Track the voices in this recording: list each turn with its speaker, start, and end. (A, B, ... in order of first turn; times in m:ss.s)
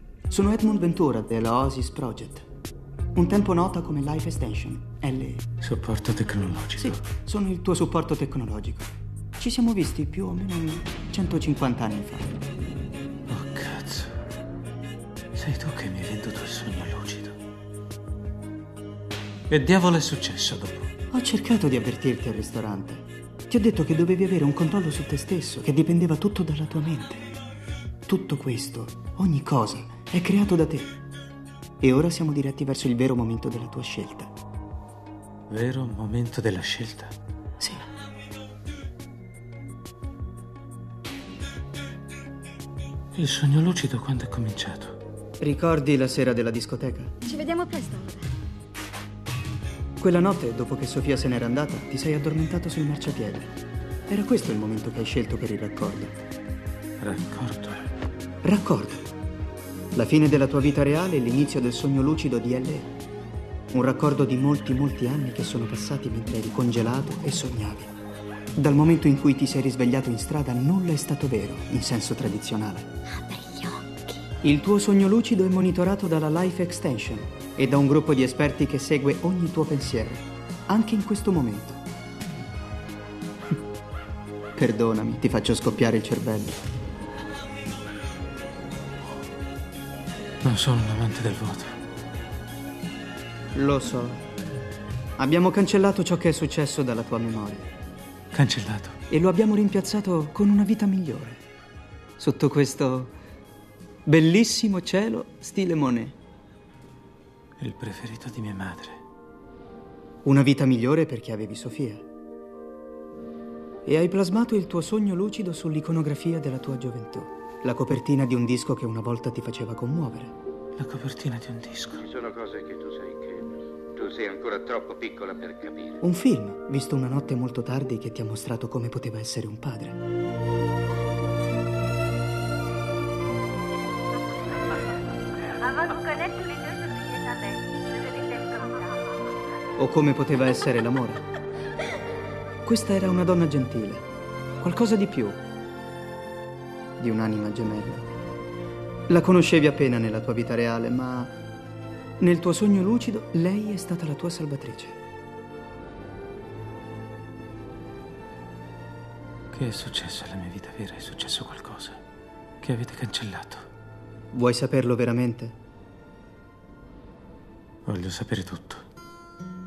0:00.3-0:02.5 A
0:03.2-0:05.5 A
0:05.6-0:07.0 B
0:06.8-0:12.4 A
0:13.3-0:14.2 B
0:15.3-0:17.4 B
0:19.5-0:20.9 B
0:21.1-0:27.3 A
0:28.1-0:31.0 A
0:31.8-0:34.3 A
0:35.5-0:37.2 B
0:37.6-0:37.8 A
0:43.1-0:45.0 B
0:45.4-0:47.3 A
0:47.2-0:48.3 C
0:50.0-0:53.6 A
0:54.1-0:56.2 A
0:57.0-0:57.9 B
0:58.4-0:59.1 A
0:59.9-1:02.9 A
1:03.7-1:07.9 A
1:08.6-1:12.9 A
1:13.1-1:14.3 C
1:14.4-1:21.8 A
1:24.6-1:26.6 A
1:30.4-1:31.8 B
1:33.6-1:34.2 A
1:35.2-1:37.7 A
1:38.3-1:39.0 B
1:39.1-1:41.4 A
1:42.2-1:43.1 A
1:44.1-1:46.2 A
1:47.6-1:49.0 B
1:50.2-1:52.0 A
1:53.9-2:00.3 A
2:00.8-2:02.1 B
2:02.0-2:06.0 D
2:06.0-2:10.0 A
2:15.6-2:19.2 C
2:19.8-2:21.2 A
2:22.6-2:24.0 A
2:24.6-2:25.4 A
2:27.0-2:28.1 A
2:29.1-2:31.3 A
2:32.2-2:35.0 A
2:39.5-2:42.0 B
2:42.6-2:43.7 B
2:44.3-2:45.6 A
2:47.9-2:48.8 B